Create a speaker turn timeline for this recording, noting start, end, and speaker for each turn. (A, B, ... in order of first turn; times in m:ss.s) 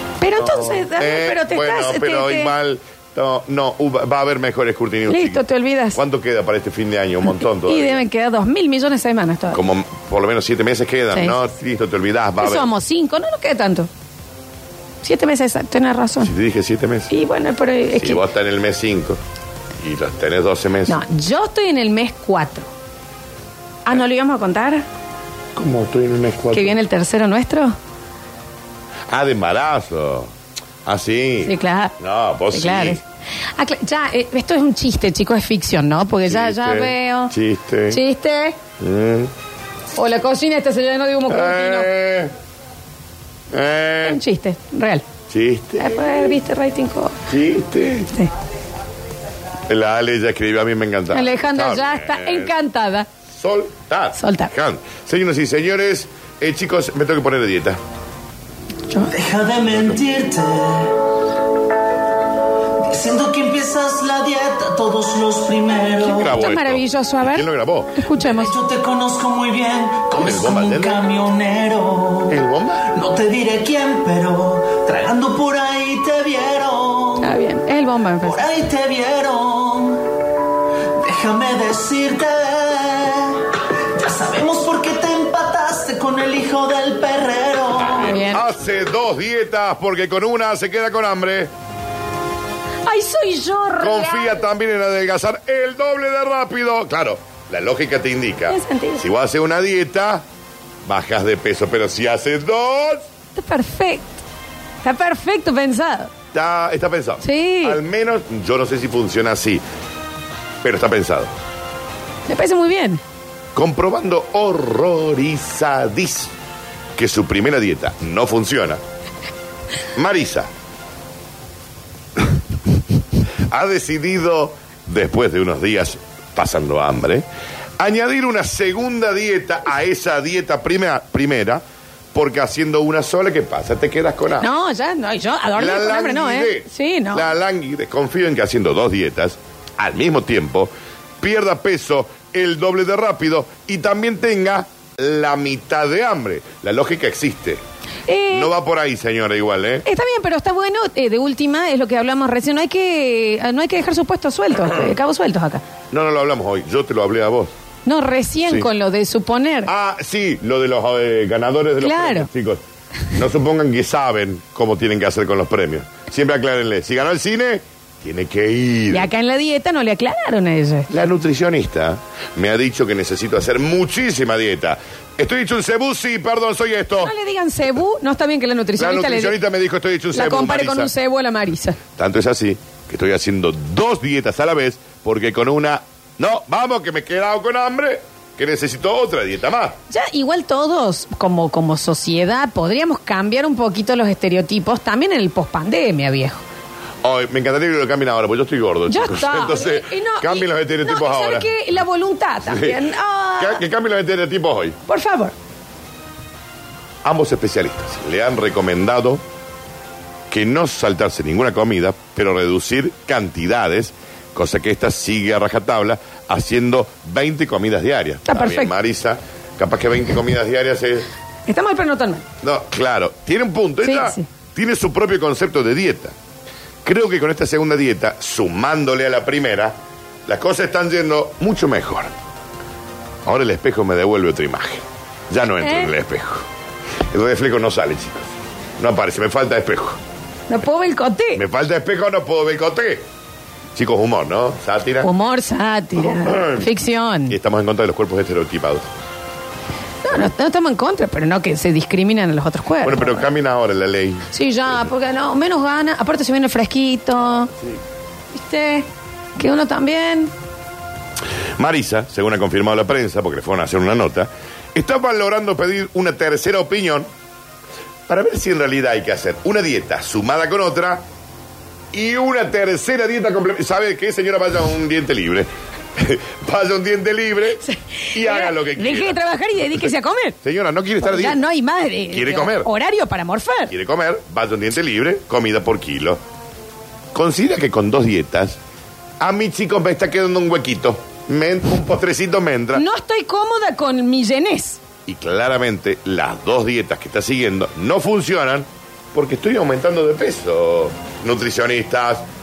0:00.2-0:02.5 A
0:00.3-0:05.4 B
0:05.1-0:06.0 A
0:05.9-0:08.0 B
0:07.6-0:09.6 A
0:09.5-0:12.7 B
0:11.1-0:11.4 A
0:12.4-0:13.9 A
0:15.0-0:16.3 A
0:16.2-0:17.1 B
0:17.1-0:18.2 A
0:17.9-0:19.2 B
0:19.8-0:21.0 B
0:20.9-0:22.7 A
0:23.8-0:24.8 A
0:25.5-0:26.8 B
0:26.5-0:27.8 A
0:29.1-0:30.3 B
0:30.8-0:33.0 B
0:31.4-0:31.9 A
0:32.5-0:33.0 A
0:33.5-0:37.3 A
0:36.2-0:38.0 B
0:37.9-0:38.6 A
0:38.8-0:39.3 B
0:39.9-0:41.9 A
0:41.3-0:42.3 B
0:43.5-0:44.2 B
0:44.0-0:45.0 A
0:45.3-0:46.4 B
0:45.8-0:47.2 A
0:47.3-0:48.1 B
0:49.7-0:52.5 B
0:51.1-0:53.1 A
0:53.3-0:57.8 B
0:54.2-0:54.5 A
0:59.1-1:01.0 C
0:59.7-1:00.0 B
1:02.8-1:06.3 C
1:06.0-1:08.5 A
1:06.1-1:08.0 B
1:08.2-1:17.4 C
1:10.2-1:11.1 B
1:12.3-1:12.9 B
1:17.2-1:18.4 A
1:18.2-1:20.1 C
1:21.0-1:28.2 C
1:27.8-1:31.5 B
1:28.0-1:28.5 A
1:32.8-1:34.4 A
1:33.8-1:40.2 B
1:38.5-1:39.0 A
1:40.8-1:43.0 B
1:43.3-1:44.2 A
1:44.8-1:46.1 A
1:46.3-1:49.6 B
1:47.2-1:47.8 A
1:50.6-1:51.3 B
1:52.3-1:53.0 A
1:53.5-1:56.3 B
1:57.0-1:58.8 B
1:59.9-2:00.5 B
2:03.5-2:07.2 B
2:07.8-2:11.6 B
2:12.1-2:14.5 B
2:14.4-2:17.3 A
2:15.5-2:27.6 B
2:28.1-2:28.5 A
2:28.3-2:29.8 B
2:29.8-2:35.6 A
2:35.9-2:37.5 B
2:37.8-2:39.7 A
2:39.6-2:49.1 B
2:41.8-2:42.3 A
2:48.9-2:50.9 A
2:50.9-2:57.1 B
2:57.0-2:59.4 A
2:58.8-3:00.9 B
3:00.1-3:01.8 A
3:01.9-3:09.8 B
3:09.9-3:16.4 A
3:17.0-3:21.5 B
3:18.9-3:23.6 A
3:22.4-3:22.8 B
3:23.4-3:24.8 B
3:24.9-3:25.3 A
3:27.0-3:29.2 B
3:30.3-3:41.1 B
3:38.3-3:38.7 A
3:41.5-3:42.2 A
3:42.4-3:46.1 B
3:43.8-3:44.2 A
3:46.8-3:52.1 B
3:53.2-3:56.5 B
3:55.6-3:55.9 A
3:57.1-4:00.0 B
4:00.5-4:01.4 A
4:01.3-4:03.0 B
4:03.7-4:05.1 B
4:05.0-4:07.4 A
4:06.0-4:06.7 B
4:07.3-4:08.9 B
4:10.0-4:13.3 A
4:12.8-4:14.3 B
4:14.3-4:17.5 A
4:17.4-4:17.8 B
4:18.3-4:18.8 A
4:19.4-4:20.3 A
4:21.6-4:27.1 B
4:28.1-4:31.0 B
4:31.9-4:39.2 B
4:37.6-4:40.4 A
4:40.4-4:41.4 B
4:41.0-4:43.7 A
4:42.1-4:42.7 B
4:43.7-4:46.2 B
4:47.1-4:48.6 B
4:49.2-4:52.8 B
4:52.7-4:54.8 A
4:55.0-5:02.2 B